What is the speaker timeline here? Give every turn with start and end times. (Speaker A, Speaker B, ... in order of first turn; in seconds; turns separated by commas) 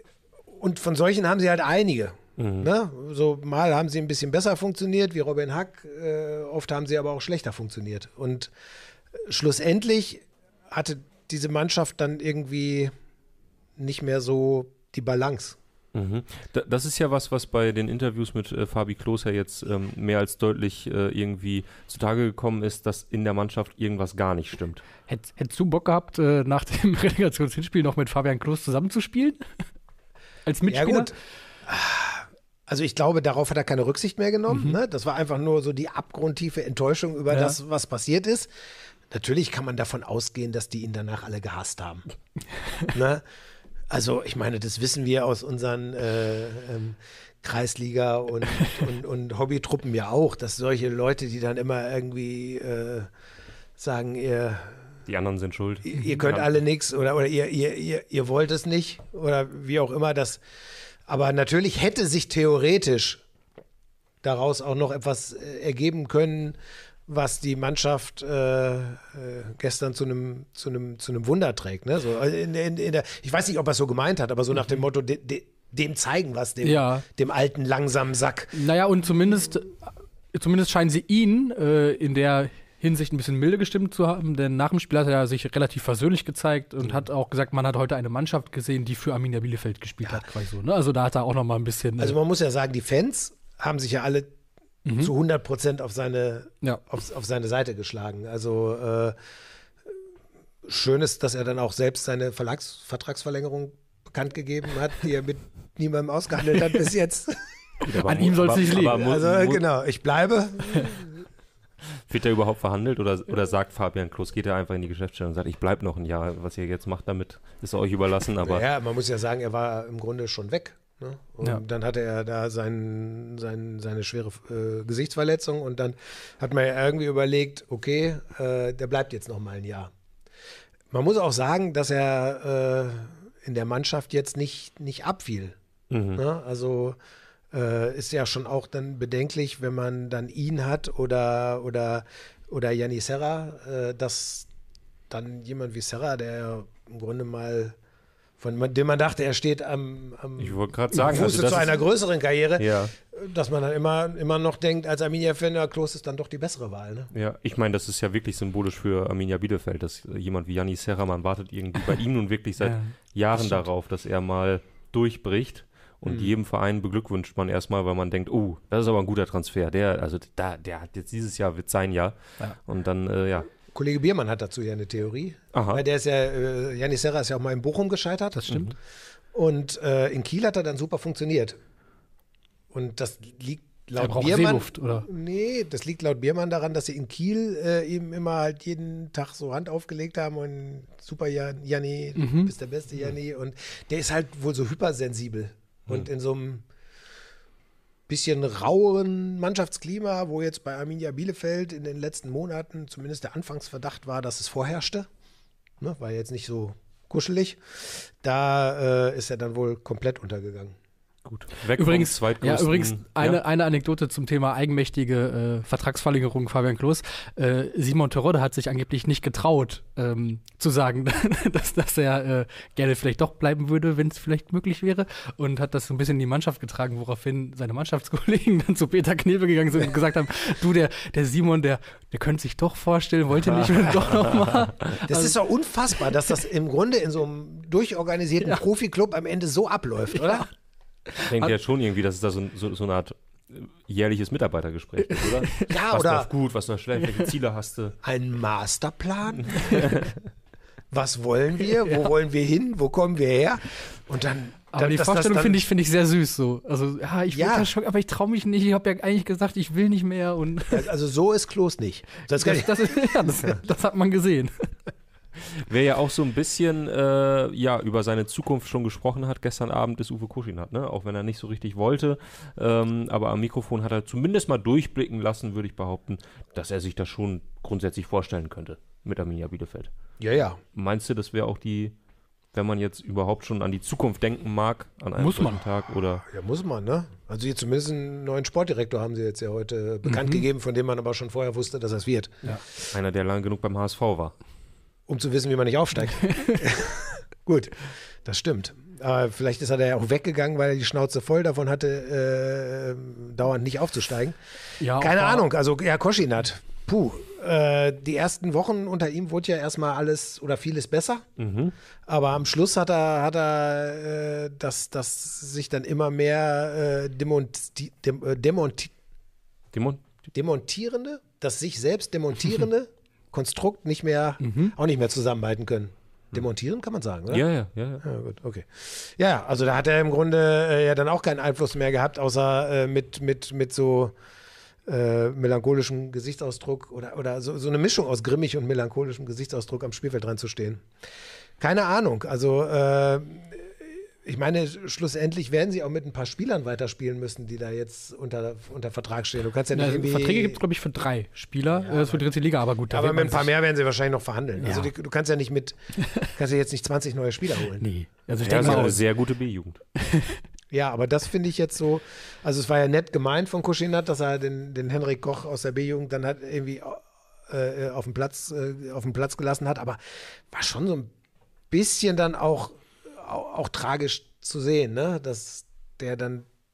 Speaker A: 0.5-8.5, Speaker B: 2.4-2.7, Speaker A: 9.1-12.9, Speaker A: 13.8-15.6, Speaker B: 15.9-24.8, Speaker C: 25.1-29.4, Speaker C: 30.4-31.1, Speaker A: 30.7-38.5, Speaker C: 34.5-34.8, Speaker C: 37.3-37.6, Speaker A: 39.1-42.0, Speaker A: 42.9-43.2, Speaker A: 43.9-53.1, Speaker A: 53.8-54.8, Speaker B: 55.1-56.6, Speaker A: 55.8-60.4, Speaker A: 61.1-63.2, Speaker A: 64.2-78.6, Speaker C: 76.6-77.0, Speaker C: 78.5-79.8, Speaker C: 80.3-92.2, Speaker A: 92.0-94.3, Speaker C: 94.8-95.1, Speaker A: 95.0-99.2, Speaker A: 100.6-107.4, Speaker B: 107.8-109.6, Speaker C: 108.0-109.1, Speaker A: 108.7-111.2, Speaker B: 111.9-118.6, Speaker A: 118.4-129.9, Speaker A: 130.9-135.6, Speaker B: 135.9-136.2, Speaker A: 136.2-137.0, Speaker A: 137.5-144.5, Speaker A: 145.1-147.8, Speaker A: 148.4-157.1, Speaker B: 150.4-151.8, Speaker B: 152.6-152.9, Speaker B: 157.1-173.5, Speaker C: 162.6-163.6, Speaker A: 166.0-166.3, Speaker A: 173.7-178.7, Speaker B: 175.5-175.8, Speaker A: 179.3-181.6, Speaker A: 182.7-196.7, Speaker C: 184.0-185.1, Speaker C: 192.2-192.5, Speaker A: 198.1-205.1, Speaker A: 205.8-210.8, Speaker B: 211.2-213.4, Speaker C: 211.8-235.4, Speaker B: 234.1-234.5, Speaker A: 235.1-240.5, Speaker C: 241.1-241.5, Speaker B: 241.2-247.9, Speaker C: 245.1-245.7, Speaker A: 245.7-246.3, Speaker A: 248.0-249.9, Speaker B: 249.6-250.1, Speaker A: 250.9-255.6, Speaker C: 254.7-260.9, Speaker A: 257.3-257.7, Speaker A: 260.7-263.0, Speaker C: 262.3-264.7, Speaker B: 265.4-279.9, Speaker A: 280.2-280.6, Speaker B: 280.7-281.9, Speaker B: 282.5-286.2, Speaker C: 285.2-285.6, Speaker A: 286.2-292.6, Speaker C: 290.1-290.4, Speaker B: 292.9-294.3, Speaker A: 295.1-304.4, Speaker C: 296.1-296.6, Speaker C: 304.8-305.5, Speaker A: 304.9-311.2, Speaker B: 311.4-311.7, Speaker A: 312.1-318.9, Speaker B: 319.7-320.1, Speaker A: 320.3-327.4, Speaker C: 324.4-324.7, Speaker B: 327.3-328.0, Speaker A: 328.0-334.1, Speaker A: 334.9-340.8, Speaker A: 341.6-350.6, Speaker C: 349.7-353.5, Speaker A: 351.7-352.3, Speaker A: 352.9-355.8, Speaker C: 354.6-354.9, Speaker A: 356.3-357.9, Speaker C: 357.8-359.0, Speaker B: 358.4-359.8, Speaker A: 358.4-359.0, Speaker C: 360.0-360.4, Speaker A: 360.7-370.0, Speaker A: 370.5-371.1, Speaker A: 371.7-376.5